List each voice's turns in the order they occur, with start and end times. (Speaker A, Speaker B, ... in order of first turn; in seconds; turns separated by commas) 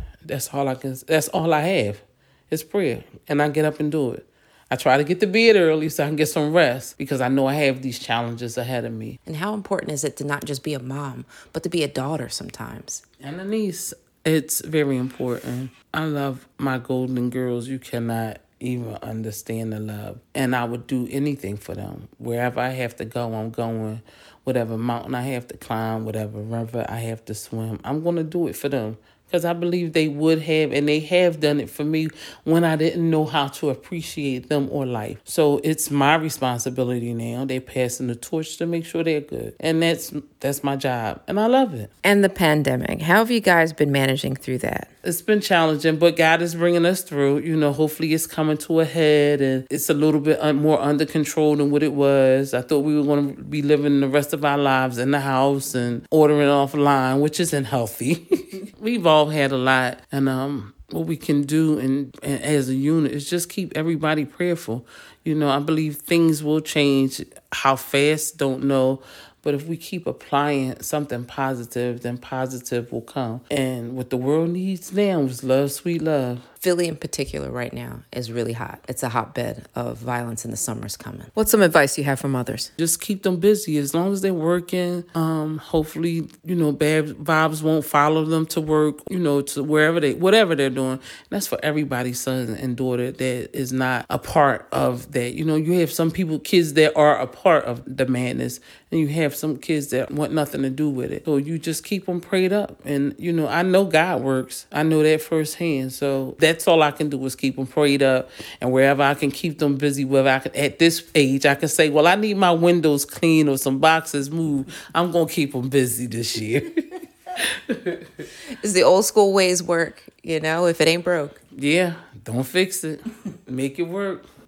Speaker A: 0.2-9.2, Speaker B: 9.2-13.0, Speaker A: 13.2-41.9, Speaker B: 42.0-44.9, Speaker A: 45.0-76.5, Speaker B: 76.6-82.7, Speaker A: 82.8-116.8, Speaker A: 117.7-118.0, Speaker B: 118.6-121.4, Speaker A: 121.5-124.2